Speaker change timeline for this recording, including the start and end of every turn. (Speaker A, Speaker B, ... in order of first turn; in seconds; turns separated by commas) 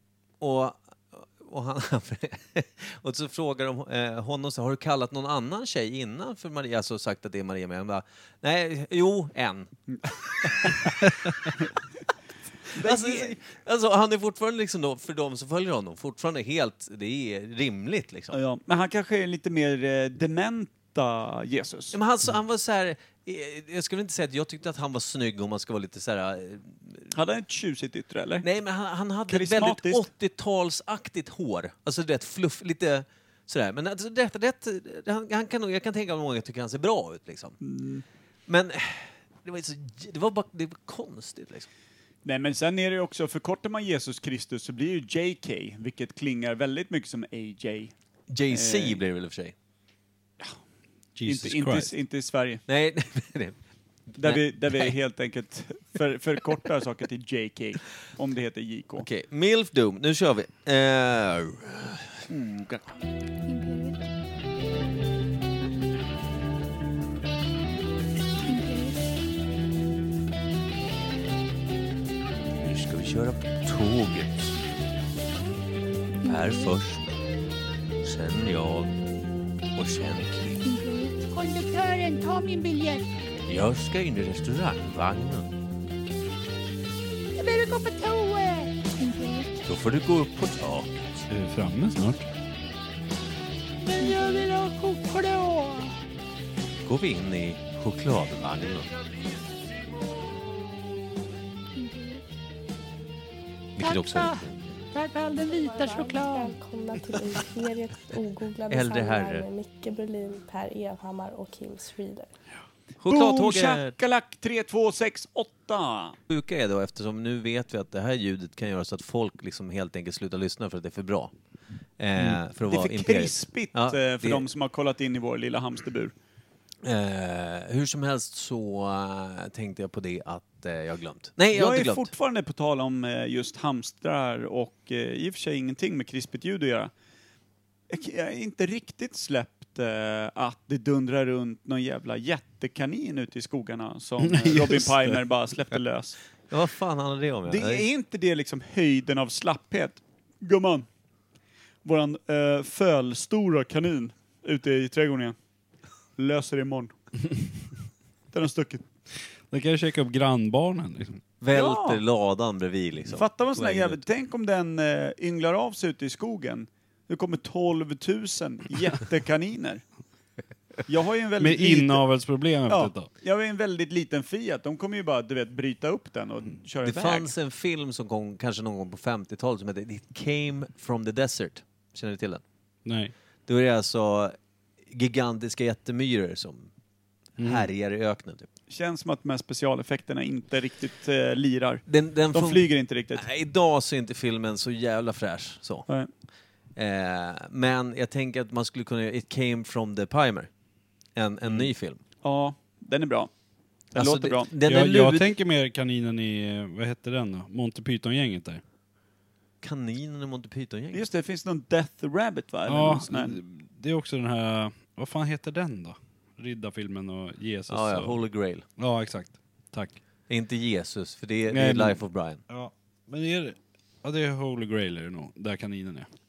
Speaker A: 0.4-9.7, Speaker B: 10.0-10.9, Speaker A: 10.4-11.5, Speaker A: 12.7-18.4, Speaker B: 12.7-13.4, Speaker B: 18.3-22.0, Speaker A: 21.9-27.1, Speaker B: 27.1-28.4, Speaker A: 28.4-37.6, Speaker B: 29.3-30.1, Speaker B: 37.6-38.0, Speaker A: 38.5-41.7, Speaker B: 42.2-47.9, Speaker A: 48.3-49.5, Speaker B: 48.5-49.0, Speaker C: 51.1-51.9, Speaker B: 51.2-52.6, Speaker A: 52.7-53.6, Speaker A: 54.1-54.9, Speaker B: 54.2-59.1, Speaker A: 59.0-62.9, Speaker D: 63.4-64.0, Speaker D: 68.4-69.0, Speaker A: 72.6-74.5, Speaker D: 76.2-76.7, Speaker A: 76.2-77.1, Speaker A: 78.0-78.9, Speaker A: 79.7-80.6, Speaker D: 80.6-83.1, Speaker A: 83.5-85.5, Speaker D: 87.3-89.6, Speaker A: 89.7-91.2, Speaker C: 91.3-92.2, Speaker D: 93.8-96.0, Speaker A: 96.8-98.9, Speaker D: 101.7-102.2, Speaker A: 103.8-104.7, Speaker D: 103.8-106.5, Speaker E: 105.3-112.3, Speaker A: 108.7-109.5, Speaker A: 113.0-113.9, Speaker B: 113.1-116.2, Speaker A: 116.3-121.3, Speaker A: 122.0-124.5, Speaker B: 122.6-126.1, Speaker A: 126.8-132.1, Speaker B: 131.5-136.9, Speaker B: 137.9-146.2, Speaker C: 144.2-145.2, Speaker A: 146.5-147.8, Speaker B: 147.5-150.8, Speaker B: 151.8-155.3, Speaker B: 156.2-156.9, Speaker B: 158.3-158.8, Speaker C: 159.5-161.2, Speaker A: 161.4-164.0, Speaker B: 161.5-162.0, Speaker B: 163.1-169.8, Speaker B: 170.8-172.1, Speaker C: 171.4-173.1, Speaker B: 172.7-177.3, Speaker A: 176.8-182.4, Speaker C: 182.8-183.1, Speaker A: 183.4-184.3, Speaker A: 184.9-186.7, Speaker C: 187.4-187.7, Speaker A: 187.4-188.5, Speaker B: 188.7-193.2, Speaker A: 191.9-195.9, Speaker A: 196.8-200.5, Speaker A: 201.2-202.0, Speaker B: 202.2-203.3, Speaker B: 203.9-204.5, Speaker A: 203.9-205.3, Speaker C: 204.6-208.6, Speaker A: 209.6-211.0, Speaker B: 210.9-213.4, Speaker C: 212.7-218.2, Speaker A: 217.7-218.6, Speaker C: 218.8-220.0, Speaker A: 220.3-222.4, Speaker C: 221.5-226.1